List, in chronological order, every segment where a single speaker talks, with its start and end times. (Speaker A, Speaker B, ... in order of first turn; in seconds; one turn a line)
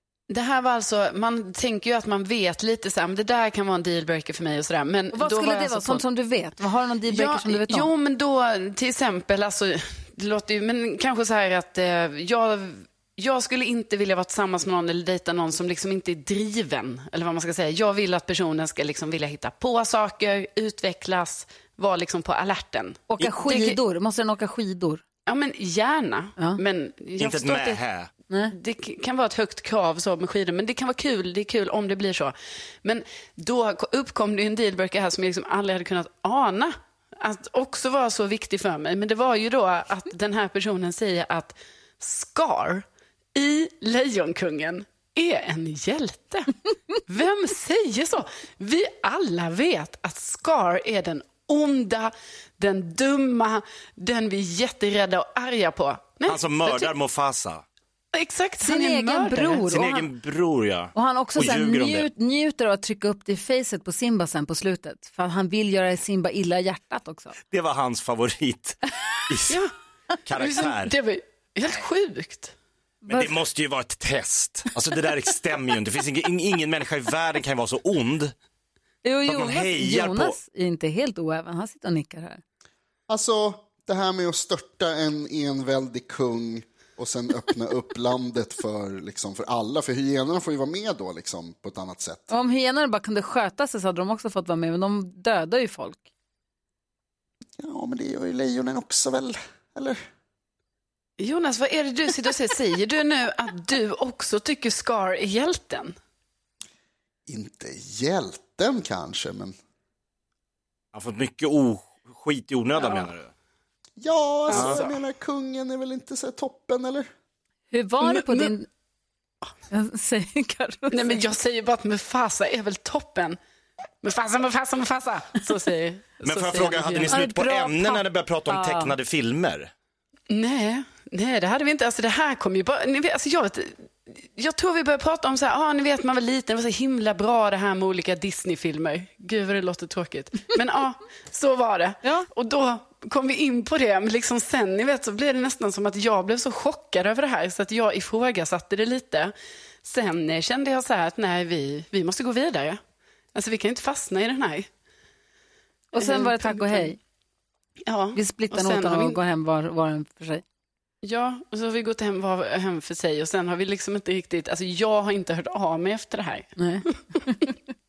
Speaker A: 0.3-6.0
Speaker B: 5.1-7.9
Speaker A: 7.1-23.8
Speaker B: 23.1-25.0
Speaker A: 25.3-27.8
Speaker C: 27.2-28.1
Speaker A: 28.5-56.9
Speaker C: 56.2-57.6
Speaker A: 58.1-59.7
Speaker B: 58.6-60.1
Speaker C: 59.7-62.1
Speaker B: 60.9-67.4
Speaker C: 67.5-69.6
Speaker C: 70.3-71.0
Speaker A: 70.3-72.5
Speaker B: 73.1-73.4
Speaker C: 73.1-78.3
Speaker B: 79.0-82.4
Speaker C: 79.3-80.4
Speaker D: 83.1-92.3
Speaker B: 92.3-96.1
Speaker D: 97.6-100.0
Speaker A: 101.2-105.9
Speaker D: 107.3-109.5
Speaker C: 110.9-113.3
Speaker A: 112.8-113.1
Speaker D: 114.0-117.1
Speaker A: 114.5-115.0
Speaker C: 114.5-114.8
Speaker B: 117.7-118.7
Speaker A: 118.0-118.5
Speaker B: 119.7-121.2
Speaker A: 120.9-123.4
Speaker A: 124.0-127.2
Speaker C: 126.2-129.7
Speaker B: 127.0-129.0
Speaker A: 130.3-152.8
Speaker A: 153.3-154.7
Speaker A: 155.9-156.9
Speaker B: 155.9-157.0
Speaker A: 157.9-159.2
Speaker B: 158.1-160.4
Speaker A: 161.0-166.5
Speaker B: 166.6-167.5